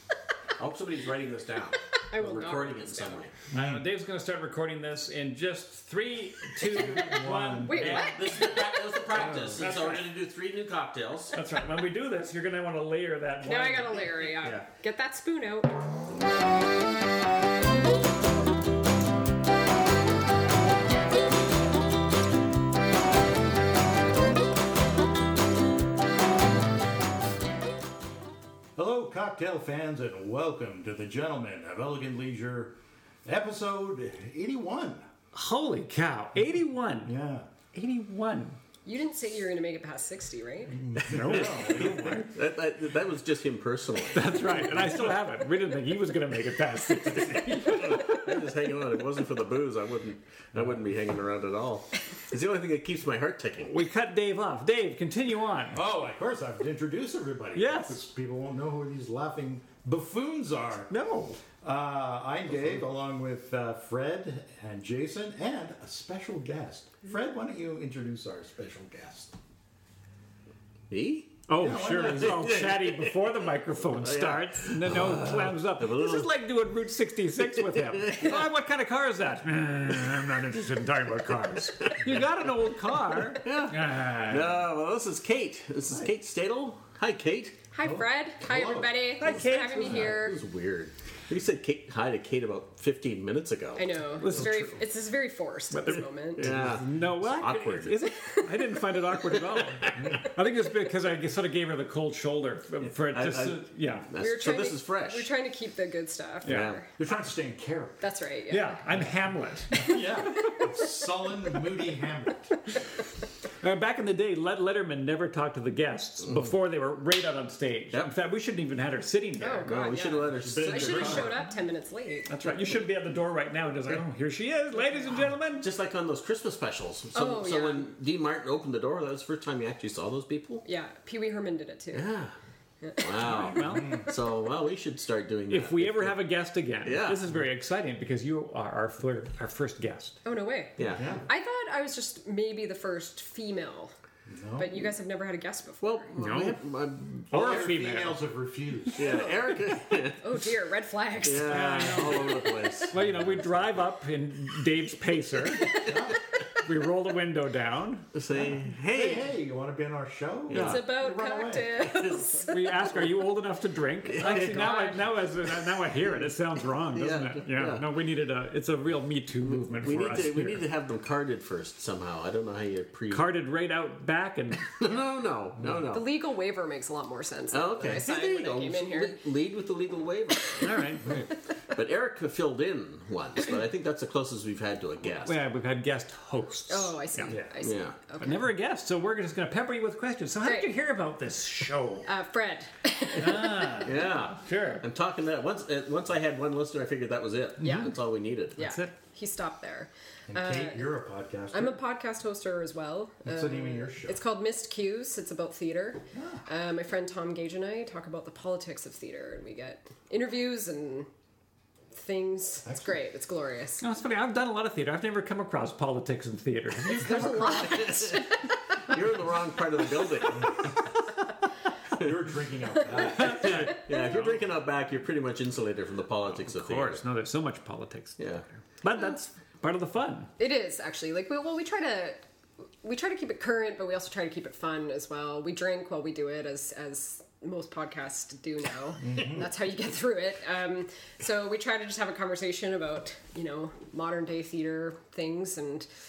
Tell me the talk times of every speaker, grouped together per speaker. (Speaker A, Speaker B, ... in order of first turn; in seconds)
Speaker A: 0.6-3.3, 7.9-11.4, 41.3-44.4, 47.7-53.8, 70.9-71.4, 72.2-73.1, 73.9-76.3, 77.6-78.4, 83.3-87.6, 89.8-94.6, 96.4-98.0, 99.3-100.2, 103.0-105.3, 106.5-106.8, 119.7-121.4, 125.6-130.7, 131.9-132.4, 133.0-136.2, 136.8-137.2, 140.8-141.1, 145.8-147.8, 148.9-150.4, 151.2-153.0, 158.1-159.3, 160.5-160.8, 161.8-162.3, 164.1-165.0, 166.9-167.8, 169.4-173.3, 174.8-176.1, 177.5-180.7, 181.7-185.3, 187.6-188.0, 193.8-198.7, 217.5-220.7, 222.9-227.0, 228.2-228.4
Speaker B: 2.0-3.3, 6.8-8.8, 13.4-15.7, 38.9-40.8, 87.7-90.4, 93.8-96.5, 98.2-98.8, 104.2-106.9, 108.0-108.8, 119.4-122.3, 127.2-127.9, 130.7-132.1, 132.8-133.2, 140.2-143.9, 144.6-146.2, 150.2-152.4, 155.6-156.0, 160.6-163.0, 164.2-165.0, 175.9-179.2, 186.7-188.5, 190.4-190.7, 192.1-193.9, 197.6-197.9, 198.6-200.9, 201.5-211.1, 211.9-213.8, 216.8-218.5, 230.4-232.2, 232.8-245.9
Speaker C: 3.5-8.5, 9.1-10.1, 11.3-14.5, 35.3-37.1, 37.7-38.6, 41.0-42.3, 44.1-48.4, 53.7-55.8, 57.5-58.0, 60.9-61.4, 71.5-84.6, 89.2-90.1, 94.2-94.8, 95.7-104.1, 106.5-106.7, 108.5-110.8, 113.5-120.1, 122.3-125.7, 133.2-134.1, 135.5-140.2, 146.2-148.2, 151.4-156.0, 156.5-158.1, 160.5-160.8, 162.5-170.7, 173.1-174.8, 180.6-181.3, 185.2-187.5, 188.2-192.1, 193.2-194.8, 198.6-198.9, 213.8-217.8, 223.2-224.4, 226.3-230.3
Speaker D: 3.5-3.9, 6.6-8.0, 28.8-35.1, 37.0-37.5, 40.8-42.3, 55.7-60.9, 61.6-69.3, 71.6-72.6, 87.8-89.2, 107.0-108.0, 109.7-112.6, 120.4-121.4, 140.9-141.3, 144.3-144.9, 147.3-149.3, 155.7-156.2, 158.3-161.9, 200.3-201.8, 203.3-204.2, 206.1-206.4, 212.7-213.0, 222.0-223.8, 239.0-239.5